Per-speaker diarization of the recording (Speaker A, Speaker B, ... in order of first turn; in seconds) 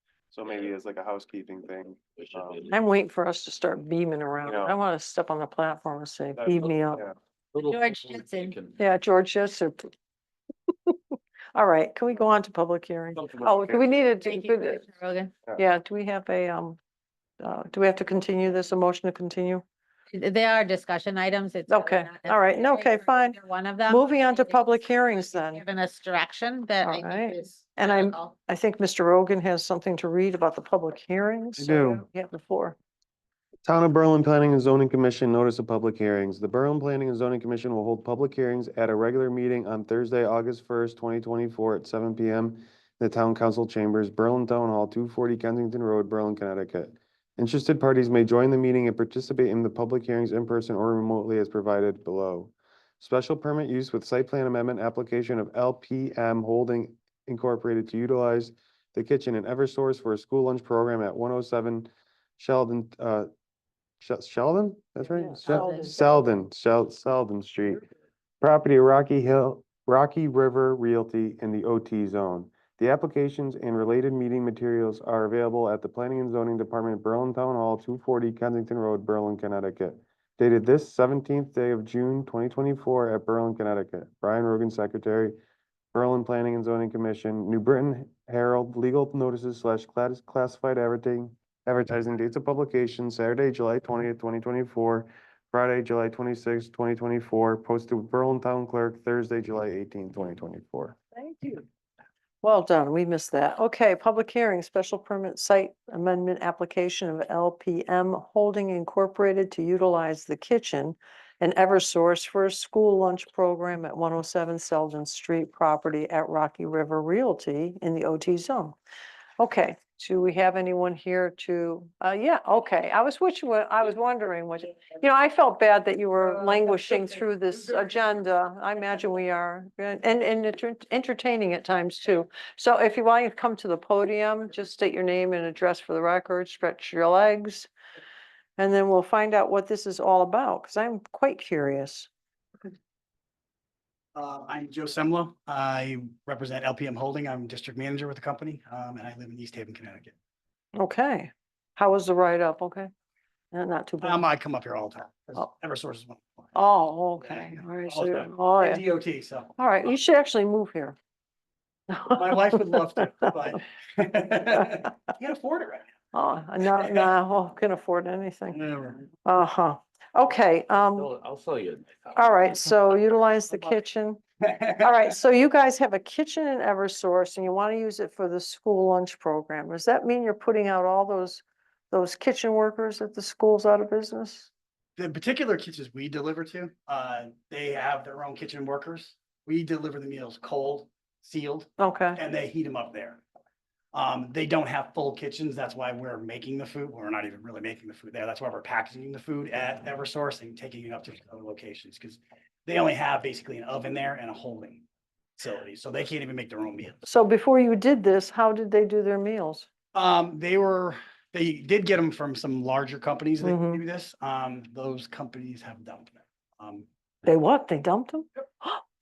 Speaker A: 0.3-2.6, 4.4-4.7, 6.3-7.2, 13.3-13.9, 31.6-32.0, 33.6-63.3, 64.0-67.8, 68.4-85.4, 85.9-101.0
Speaker B: 0.4-0.7, 2.1-2.8, 7.5-8.8, 170.9-172.5
Speaker C: 2.7-7.0, 8.8-9.9, 11.5-14.8, 15.5-16.8, 17.4-19.6, 21.7-25.6, 26.8-32.8, 65.1-66.2, 101.1-101.7, 102.4-118.8, 119.4-137.7, 138.6-142.1, 150.7-152.9, 153.5-154.2, 156.5-158.8, 159.6-160.9, 161.9-162.7, 166.1-168.6, 169.2-171.1, 172.2-174.2, 174.8-184.5, 191.8-192.2, 207.1-209.7, 213.4-213.8, 217.2-218.8
Speaker D: 7.6-8.6, 14.1-15.4, 20.1-28.3, 65.4-66.1
Speaker E: 144.1-150.1, 154.0-156.6, 157.2-159.9, 162.1-165.9, 166.7-167.1, 168.5-169.1, 174.4-175.1, 185.0-193.2, 193.9-204.8, 205.4-207.0, 209.9-216.9